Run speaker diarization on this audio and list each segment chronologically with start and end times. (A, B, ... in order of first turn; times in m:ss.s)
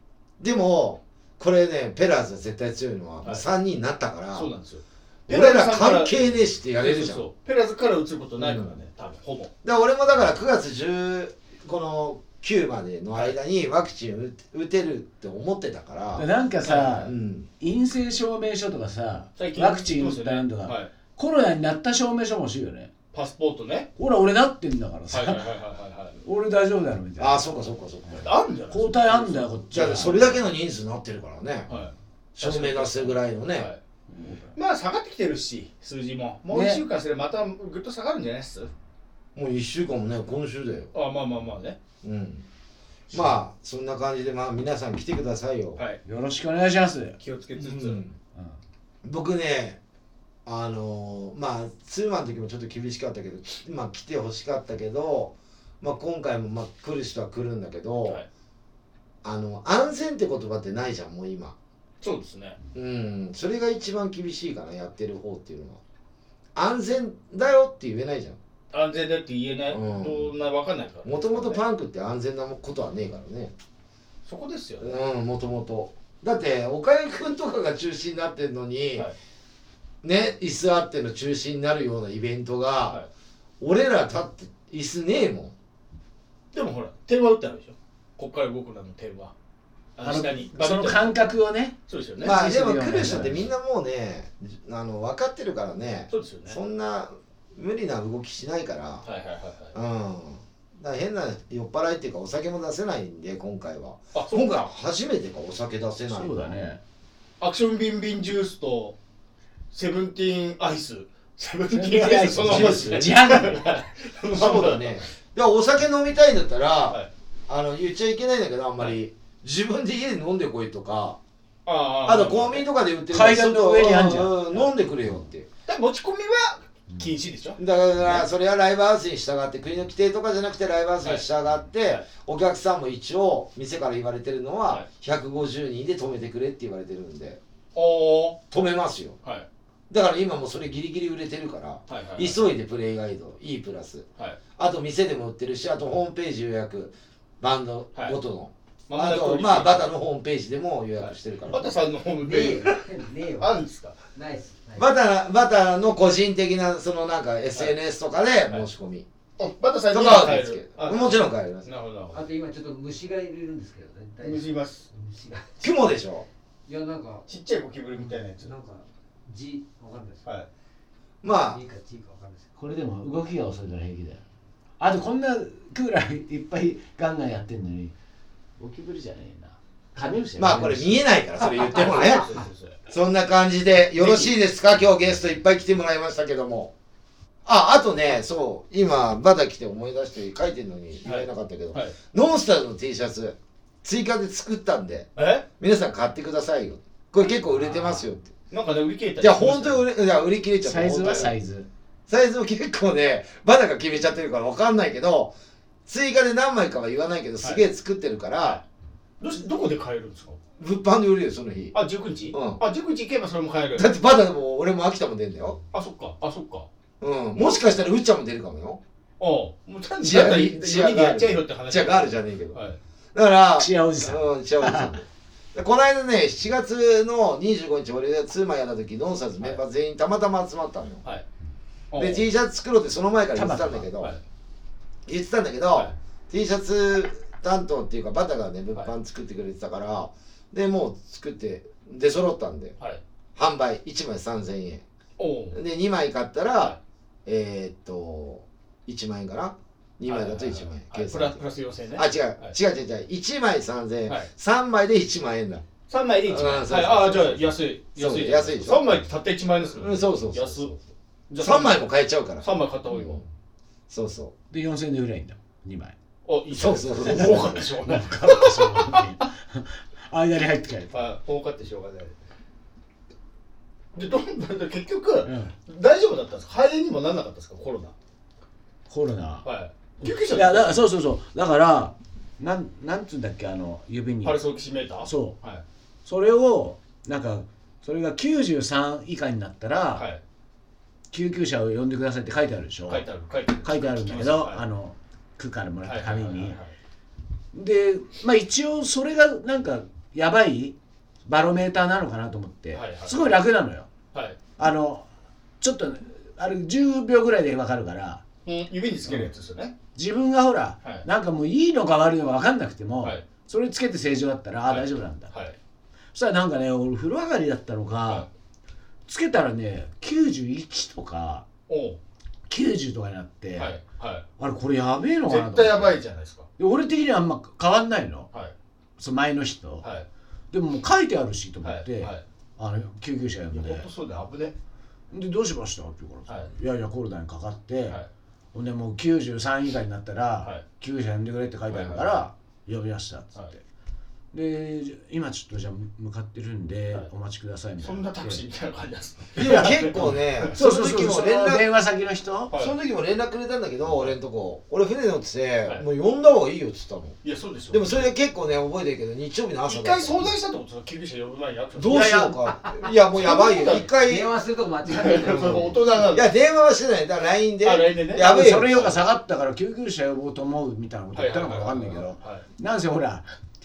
0:00.4-0:04.5 A
0:04.3-0:06.2 B
0:05.3-0:07.3 A
0:06.8-0:09.5 B
0:08.4-0:08.8 A
0:09.6-0:16.3 A
0:16.2-0:22.9 C
0:16.6-0:17.1 B
0:17.0-0:17.5 A
0:19.4-0:20.9 B
0:23.1-0:23.9 B
0:24.0-0:25.5 C
0:25.1-0:26.2 B
0:26.2-0:27.5 C
0:27.2-0:28.3 A
0:28.1-0:30.4 C
0:28.2-0:29.5 B
0:29.7-0:31.7 A
0:31.7-0:33.8 B
0:32.4-0:33.7 A
0:34.1-0:34.6 C
0:34.6-0:38.7 B
0:36.5-0:36.8 C
0:39.4-0:40.9 A
0:40.9-0:41.8 B
0:42.0-0:42.4 A
0:43.1-0:45.8 A
0:46.0-0:47.2 C
0:47.2-0:48.0 B
0:47.6-0:48.2 A
0:49.0-0:49.8 A
0:50.5-0:58.2 A
0:59.2-1:01.6 A
1:02.0-1:02.6 B
1:02.7-1:05.8 A
1:06.6-1:08.4 A
1:08.7-1:11.6 B
1:09.7-1:10.3 A
1:11.0-1:13.5 A
1:14.3-1:15.0 B
1:14.8-1:19.1 A
1:20.0-1:23.0 A
1:23.6-1:25.5 A
1:26.5-1:29.3 B
1:30.0-1:31.2 B
1:30.0-1:33.5 C
1:31.9-1:32.4 B
1:32.2-1:39.0 A
1:36.1-1:36.6 B
1:39.0-1:39.8 B
1:39.7-1:46.7 A
1:44.2-1:44.7 B
1:46.1-1:46.8 C
1:47.4-1:49.0 B
1:49.7-1:55.0 B
1:51.7-1:53.8 C
1:52.4-1:53.2 A
1:54.3-2:01.2 A
2:01.7-2:02.7 B
2:02.0-2:05.5 A
2:03.1-2:04.4 C
2:05.7-2:08.3 B
2:07.6-2:17.4 A
2:11.0-2:11.3 B
2:17.8-2:18.4 B
2:18.5-2:19.2 A
2:19.9-2:24.1 A
2:21.9-2:22.5 B
2:24.6-2:31.7 A
2:28.9-2:29.9 B
2:31.0-2:34.0 B
2:32.2-2:33.6 D
2:34.2-2:34.9 D
2:34.8-2:39.1 A
2:39.4-2:42.2 B
2:39.9-2:41.7 A
2:42.1-2:45.7 D
2:44.2-2:44.9 B
2:45.6-2:46.3 A
2:46.7-2:47.3 D
2:47.3-2:48.5 B
2:48.0-2:50.3 D
2:51.2-2:51.6 A
2:51.4-2:52.5 D
2:52.6-2:54.2 C
2:54.8-2:58.0 C
2:58.6-3:01.0 C
3:00.4-3:02.3 A
3:01.6-3:02.8 B
3:02.9-3:06.7 A
3:04.0-3:04.3 B
3:07.5-3:18.3 A
3:11.0-3:12.0 B
3:15.2-3:15.5 B
3:18.5-3:19.8 B
3:19.2-3:21.3 A
3:20.6-3:21.7 C
3:21.0-3:21.3 B
3:22.1-3:25.3 A
3:25.9-3:28.6 A
3:29.2-3:30.4 B
3:30.6-3:31.8 A
3:31.7-3:33.9 B
3:32.3-3:32.6 A
3:33.8-3:35.6 A
3:35.7-3:36.7 B
3:37.0-3:38.8 A
3:39.2-3:42.8 B
3:40.0-3:42.6 A
3:43.1-3:51.0 A
3:43.6-3:45.0 C
3:51.9-3:52.3 B
3:52.0-3:54.2 A
3:53.3-3:53.9 C
3:55.1-4:02.8 A
4:03.4-4:04.8 A
4:05.2-4:05.6 B
4:05.5-4:11.4 A
4:10.1-4:12.6 B
4:11.9-4:15.7 A
4:15.9-4:20.7 B
4:16.2-4:19.0 A
4:19.8-4:20.8 A
4:21.3-4:23.2 B
4:21.4-4:23.2 A
4:23.9-4:24.3 A
4:24.5-4:26.0 C
4:26.2-4:29.1 B
4:26.5-4:27.7 A
4:27.0-4:31.1 C
4:30.9-4:32.2 B
4:34.0-4:37.9 B
4:35.2-4:35.5 C
4:38.9-4:39.5 C
4:39.4-4:40.8 B
4:40.0-4:44.4 C
4:44.2-4:45.6 B
4:45.0-4:45.4 C
4:46.1-4:50.1 C
4:50.0-4:50.2 B
4:51.1-4:53.0 C
4:52.9-4:54.7 B
4:53.6-4:56.6 C
4:55.8-4:56.7 B
4:57.5-5:03.9 C
5:02.7-5:03.4 B
5:04.1-5:04.4 B
5:04.6-5:05.1 C
5:05.6-5:08.2 C
5:08.5-5:09.8 B
5:10.0-5:15.3 C
5:14.7-5:15.6 B
5:16.1-5:18.3 C
5:19.1-5:21.5 C
5:21.7-5:22.0 B
5:22.5-5:23.8 C
5:23.6-5:24.3 B
5:24.4-5:26.0 C
5:25.3-5:26.5 B
5:26.6-5:28.3 C
5:29.0-5:29.9 C
5:30.5-5:33.9 C
5:31.6-5:32.2 B
5:33.5-5:34.6 B
5:35.1-5:38.0 C
5:38.5-5:43.6 C
5:41.7-5:42.3 B
5:44.3-5:48.4 C
5:47.8-5:50.6 B
5:49.4-5:51.7 A
5:49.5-5:52.5 C
5:52.5-5:52.8 B
5:52.5-5:57.2 A
5:57.2-5:58.1 B
5:57.7-6:00.3 A
5:59.7-6:02.4 B
6:01.8-6:04.3 A
6:03.2-6:03.9 B
6:03.4-6:05.8 D
6:04.9-6:06.3 B
6:05.0-6:09.0 A
6:07.6-6:09.1 B
6:08.2-6:13.3 C
6:11.2-6:12.4 B